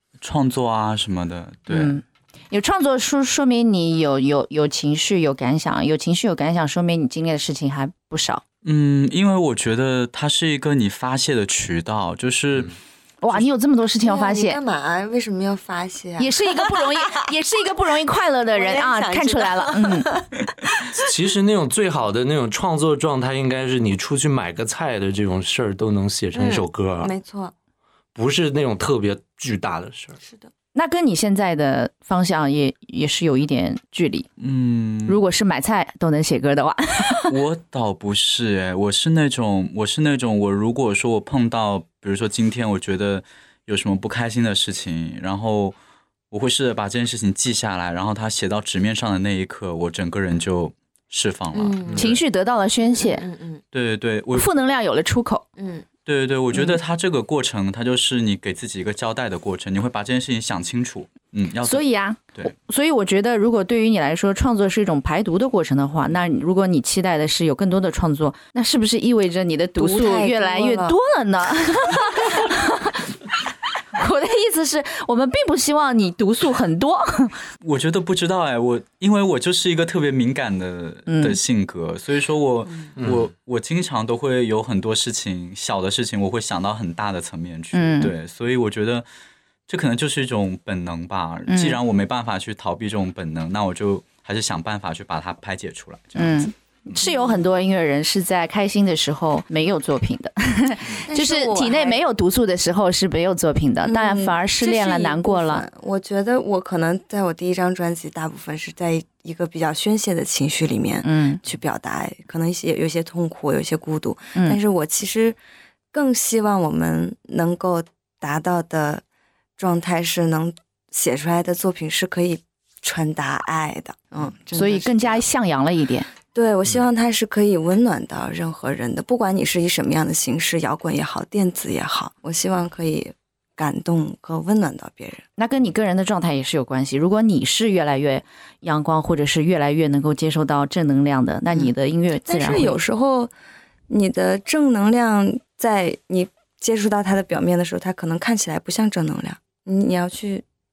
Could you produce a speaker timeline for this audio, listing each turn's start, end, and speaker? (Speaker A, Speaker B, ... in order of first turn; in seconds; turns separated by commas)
Speaker A: 0.2-1.9, Speaker B: 1.7-8.4, Speaker A: 8.6-12.7, Speaker B: 13.2-14.6, Speaker C: 14.0-17.3, Speaker B: 16.2-20.1, Speaker C: 18.5-21.0, Speaker D: 20.9-27.1, Speaker C: 26.3-27.5, Speaker D: 28.1-30.2, Speaker B: 30.7-34.3, Speaker A: 34.4-35.2, Speaker B: 35.1-37.4, Speaker A: 37.3-45.8, Speaker A: 46.3-52.2, Speaker C: 51.5-52.1, Speaker B: 52.0-53.3, Speaker C: 53.0-53.6, Speaker A: 53.7-54.5, Speaker B: 54.3-55.4, Speaker C: 55.6-55.9, Speaker A: 56.0-61.8, Speaker B: 61.6-73.1, Speaker C: 69.8-71.0, Speaker B: 73.9-77.3, Speaker A: 77.6-89.0, Speaker B: 81.1-81.4, Speaker D: 83.0-83.3, Speaker B: 87.7-88.1, Speaker A: 89.7-96.9, Speaker B: 91.5-91.8, Speaker B: 96.2-105.6, Speaker C: 97.0-97.4, Speaker C: 101.0-102.0, Speaker C: 103.8-115.4, Speaker B: 111.0-111.4, Speaker C: 115.9-119.0, Speaker C: 119.6-125.2, Speaker B: 124.5-126.1, Speaker C: 126.3-135.2, Speaker B: 135.4-142.8, Speaker C: 142.2-143.3, Speaker C: 143.9-150.4